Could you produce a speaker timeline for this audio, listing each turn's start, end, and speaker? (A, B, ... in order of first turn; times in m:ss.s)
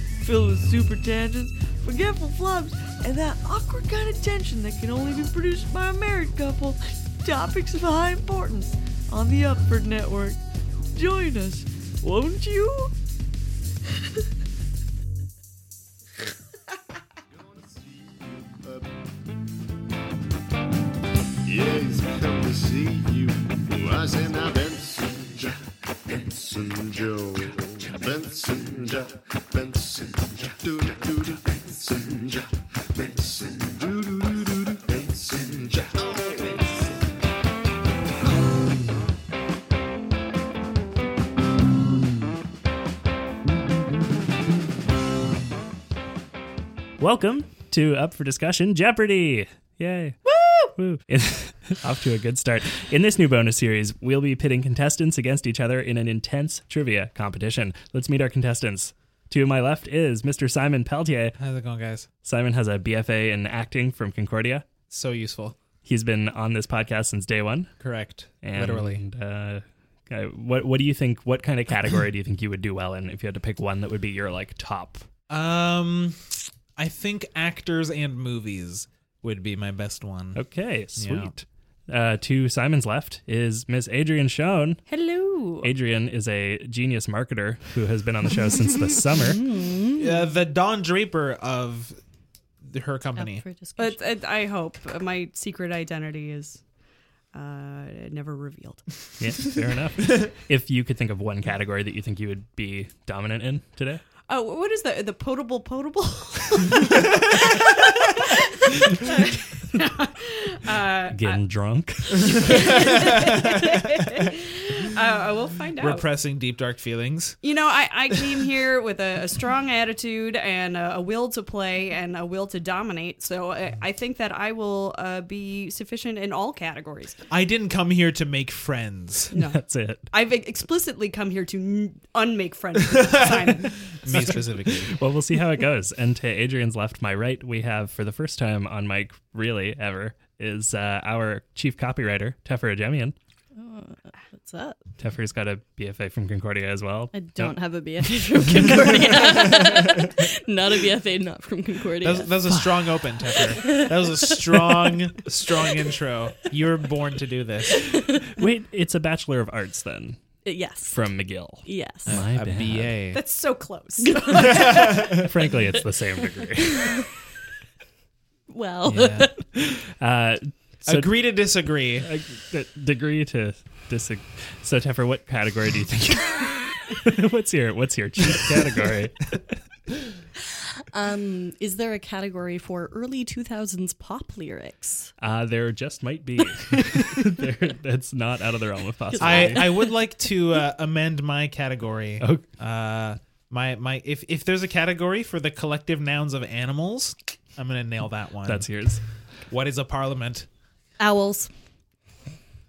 0:00.2-0:12.9 A
0:17.3-0:18.9 B
0:21.4-0:36.8 B
0:47.0-0:50.2 C
0:50.3-0:50.7 D
0:50.8-1:01.4 C
1:01.4-1:02.1 E
1:02.2-1:04.6 C
1:04.9-1:05.6 E
1:05.8-1:07.7 C
1:07.8-1:09.0 E
1:08.4-1:15.0 C
1:15.3-1:21.3 E
1:20.3-1:24.8 C
1:24.9-1:25.7 F
1:25.6-1:29.5 C
1:29.4-1:30.1 D
1:29.9-1:32.0 E
1:32.6-1:33.4 E
1:33.2-1:34.0 D
1:33.8-1:36.6 F
1:37.3-1:38.8 F
1:39.2-1:44.0 C
1:44.3-1:51.4 F
1:51.1-1:52.9 C
1:52.2-1:56.0 F
1:52.5-1:53.4 E
1:55.8-1:57.4 E
1:57.4-2:07.1 F
2:07.3-2:09.3 E
2:09.3-2:14.3 F
2:09.3-2:10.0 C
2:12.9-2:15.0 E
2:14.1-2:23.1 C
2:23.6-2:24.8 D
2:25.0-2:29.4 C
2:27.1-2:32.5 D
2:32.0-2:38.0 E
2:32.4-2:33.4 C
2:38.2-2:40.2 C
2:40.4-2:41.0 D
2:40.9-2:42.9 C
2:41.6-2:42.1 D
2:42.0-2:43.2 E
2:43.1-2:45.2 F
2:44.0-2:45.0 D
2:44.4-2:45.3 E
2:45.0-2:47.1 C
2:48.5-2:49.3 D
2:48.8-2:49.3 E
2:49.4-2:51.1 C
2:50.8-2:52.1 E
2:52.0-2:59.4 C
3:00.9-3:05.1 D
3:05.2-3:09.8 C
3:09.1-3:09.7 D
3:09.2-3:18.7 E
3:12.2-3:12.4 C
3:18.4-3:19.0 C
3:19.5-3:20.5 E
3:21.0-3:21.5 D